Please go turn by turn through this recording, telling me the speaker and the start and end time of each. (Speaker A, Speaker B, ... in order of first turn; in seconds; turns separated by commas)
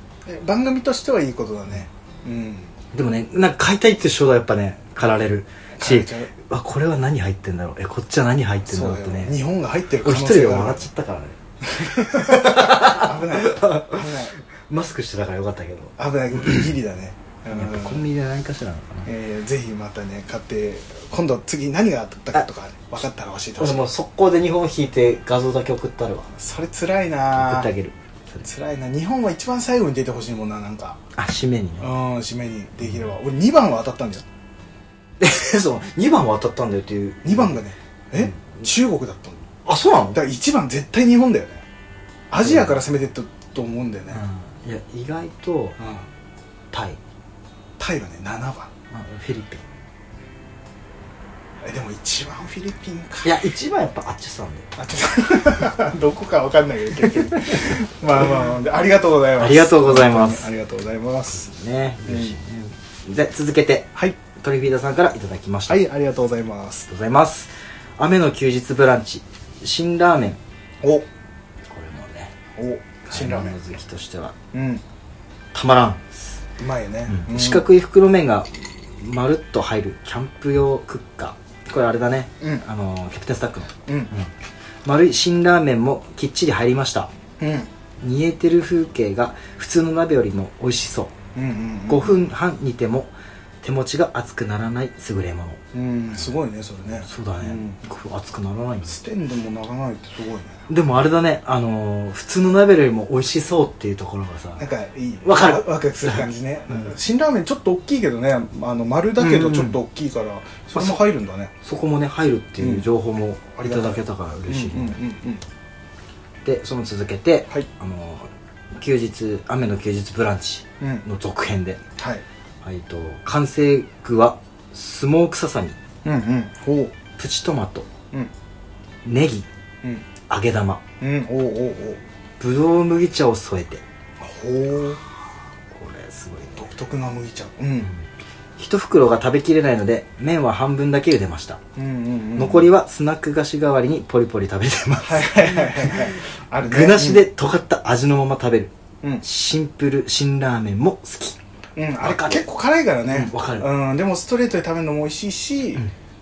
Speaker A: 0.3-2.7, Speaker B: 2.9-9.4, Speaker A: 5.8-6.3, Speaker A: 8.7-10.9, Speaker B: 10.0-16.7, Speaker A: 11.7-14.4, Speaker A: 16.0-18.1, Speaker B: 17.5-19.1, Speaker A: 19.1-23.9, Speaker B: 23.6-26.3, Speaker A: 26.4-27.7, Speaker B: 27.3-28.5, Speaker A: 28.4-31.0, Speaker B: 31.1-31.9, Speaker A: 31.8-34.2, Speaker B: 35.2-37.6, Speaker A: 37.2-39.5, Speaker B: 38.2-38.6, Speaker B: 39.7-40.2, Speaker A: 40.1-41.7, Speaker A: 42.3-44.2, Speaker B: 42.4-42.8, Speaker B: 44.1-45.8, Speaker A: 45.8-46.1, Speaker B: 46.7-47.0, Speaker A: 47.8-48.7, Speaker B: 48.9-49.6, Speaker A: 51.6-53.3, Speaker B: 53.2-54.7, Speaker A: 54.8-61.5, Speaker B: 59.4-60.5, Speaker B: 61.3-65.8, Speaker A: 62.1-62.4, Speaker A: 65.7-66.9, Speaker B: 66.9-70.4, Speaker A: 70.8-71.1, Speaker B: 71.7-72.3, Speaker A: 72.6-73.6, Speaker B: 73.1-74.3, Speaker A: 74.5-74.8, Speaker B: 75.5-76.4, Speaker A: 76.6-77.7, Speaker B: 77.1-84.3, Speaker A: 83.9-84.1, Speaker B: 84.8-87.1, Speaker A: 87.4-87.7, Speaker B: 88.0-91.1, Speaker A: 91.3-92.2, Speaker B: 91.9-95.6, Speaker A: 95.7-97.8, Speaker B: 96.9-99.0, Speaker A: 98.8-100.7, Speaker B: 100.7-104.7, Speaker A: 104.6-111.5, Speaker B: 105.2-106.9, Speaker B: 109.2-109.8, Speaker B: 110.8-111.0, Speaker B: 111.6-115.0, Speaker A: 112.6-112.9, Speaker A: 113.6-115.5, Speaker B: 116.5-121.8, Speaker A: 122.0-122.2, Speaker B: 122.6-125.8, Speaker A: 126.0-127.0, Speaker B: 127.2-127.9, Speaker B: 129.1-129.5, Speaker B: 130.3-130.8, Speaker A: 131.0-132.0, Speaker B: 132.4-133.8, Speaker A: 134.2-135.0, Speaker B: 135.7-136.6, Speaker A: 136.6-137.9, Speaker B: 138.6-141.6, Speaker A: 141.8-142.7, Speaker B: 142.4-151.4, Speaker A: 145.0-147.2, Speaker A: 151.8-155.8, Speaker B: 152.0-152.5, Speaker B: 153.1-153.7